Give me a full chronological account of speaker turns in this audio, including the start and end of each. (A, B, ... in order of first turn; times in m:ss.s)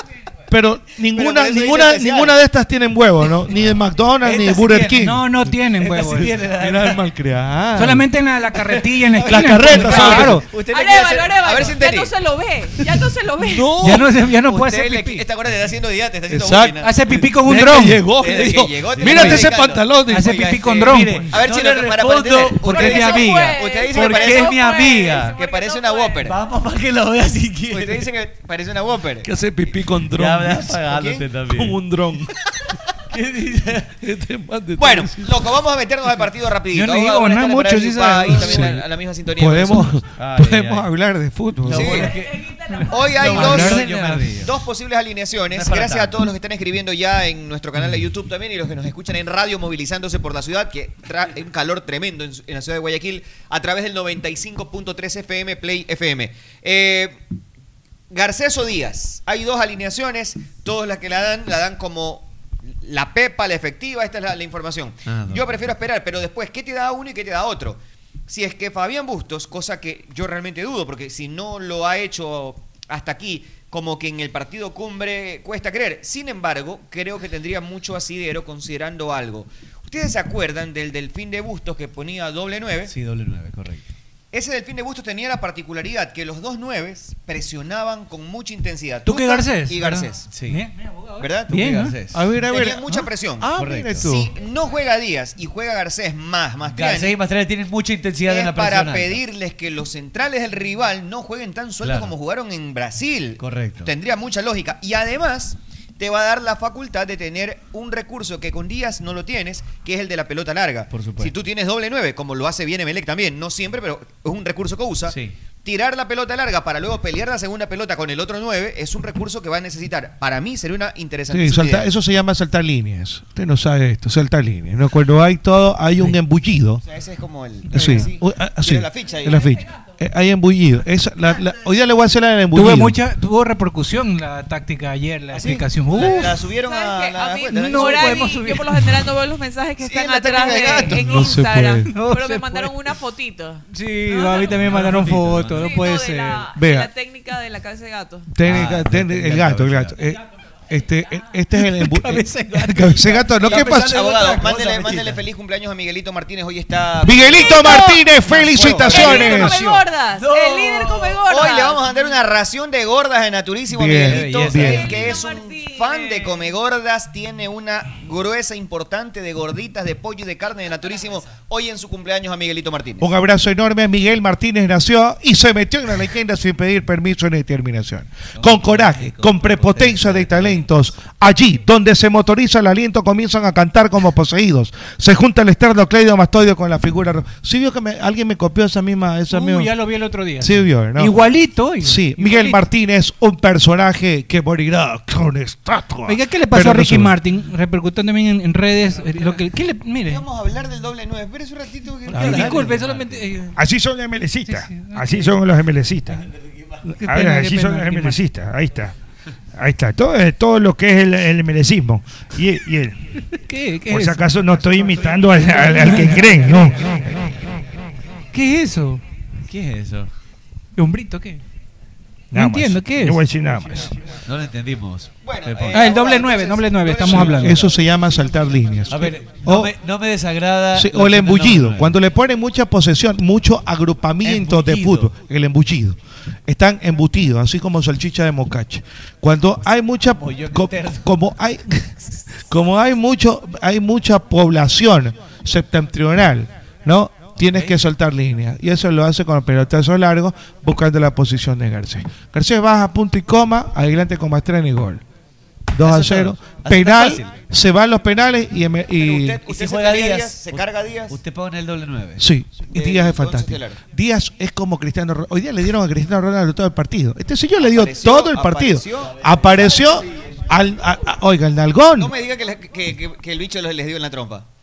0:00.5-0:05.3 A
0:01.1-0:02.4 B
0:04.2-0:05.2 C
0:05.0-0:06.3 D
0:05.8-0:07.0 C
0:06.1-0:08.1 A
0:07.8-0:10.5 D
0:08.6-0:11.2 C
0:09.2-0:10.4 A
0:09.7-0:14.0 E
0:10.7-0:12.1 B
0:13.4-0:14.1 A
0:13.8-0:15.3 D
0:14.4-0:17.0 B
0:16.3-0:16.8 A
0:16.5-0:18.1 D
0:17.4-0:20.5 A
0:18.1-0:26.4 B
0:19.0-0:19.5 C
0:19.1-0:21.3 D
0:20.8-0:25.4 C
0:22.6-0:23.6 D
0:22.9-0:26.3 E
0:26.2-0:28.1 C
0:27.7-0:29.8 B
0:29.2-0:30.8 A
0:30.1-0:31.8 C
0:30.8-0:31.2 B
0:31.5-0:32.3 A
0:33.1-0:34.0 C
0:34.0-0:35.5 A
0:34.8-0:40.0 B
0:36.7-0:38.8 D
0:38.3-0:38.8 A
0:39.4-0:42.1 A
0:40.2-0:40.9 C
0:41.6-0:44.6 C
0:41.7-0:42.1 B
0:42.4-0:43.1 E
0:42.7-0:44.3 D
0:42.9-0:57.2 B
0:45.5-0:46.2 C
0:58.1-1:22.9 B
1:05.1-1:05.5 C
1:22.9-1:23.8 C
1:24.3-1:30.3 B
1:29.1-1:32.0 D
1:30.3-1:30.6 C
1:31.2-1:31.6 B
1:31.5-1:32.2 C
1:32.1-1:34.3 A
1:32.4-1:37.2 B
1:33.6-1:34.1 C
1:36.7-1:39.2 C
1:38.3-2:01.9 B
1:41.8-1:42.1 C
1:43.4-1:43.9 C
1:50.9-1:51.3 C
1:55.1-1:55.4 C
2:01.3-2:06.8 A
2:06.8-2:09.6 B
2:07.7-2:13.0 A
2:07.8-2:08.1 D
2:12.5-2:16.4 D
2:15.3-2:18.4 B
2:16.0-2:24.7 E
2:17.6-2:19.1 D
2:19.8-2:21.3 B
2:20.8-2:21.9 A
2:21.9-2:22.8 D
2:23.7-2:26.5 D
2:24.6-2:25.7 C
2:25.5-2:28.3 E
2:26.6-2:26.9 A
2:28.3-2:33.9 A
2:28.4-2:30.0 C
2:31.6-2:33.1 D
2:32.7-2:35.2 C
2:33.3-2:39.6 B
2:37.0-2:39.8 A
2:37.3-2:42.0 E
2:40.1-2:41.3 C
2:41.3-2:53.1 B
2:43.7-2:44.9 A
2:44.0-2:45.2 C
2:44.6-2:46.5 E
2:53.0-3:09.7 A
2:58.4-3:00.7 C
3:09.3-3:12.6 D
3:10.4-3:11.2 A
3:11.8-3:14.7 A
3:14.7-3:16.2 F
3:16.1-3:20.2 D
3:16.5-3:17.2 A
3:20.0-3:22.8 B
3:22.1-3:23.6 D
3:22.1-3:22.5 A
3:22.5-3:23.3 C
3:23.6-3:26.2 F
3:24.5-3:25.3 D
3:27.0-3:28.2 D
3:27.0-3:28.9 F
3:29.6-3:33.0 F
3:33.3-3:34.3 D
3:33.9-3:37.3 F
3:35.6-3:36.7 D
3:38.3-3:39.0 D
3:39.5-3:40.1 C
3:40.8-3:41.4 D
3:42.3-3:43.9 F
3:42.3-3:43.2 D
3:44.3-3:45.9 C
3:45.2-3:47.8 B
3:45.7-3:47.6 D
3:47.3-3:49.7 A
3:48.9-3:52.0 C
3:50.7-4:01.9 A
3:54.2-3:55.1 C
4:00.0-4:01.2 C
4:02.5-4:15.0 A
4:07.4-4:07.9 C
4:15.7-4:19.4 A
4:15.8-4:17.4 C
4:19.0-4:21.2 B
4:19.4-4:22.3 C
4:22.2-4:32.1 A
4:22.7-4:23.8 B
4:27.6-4:29.2 B
4:29.3-4:30.0 C
4:32.0-4:34.4 B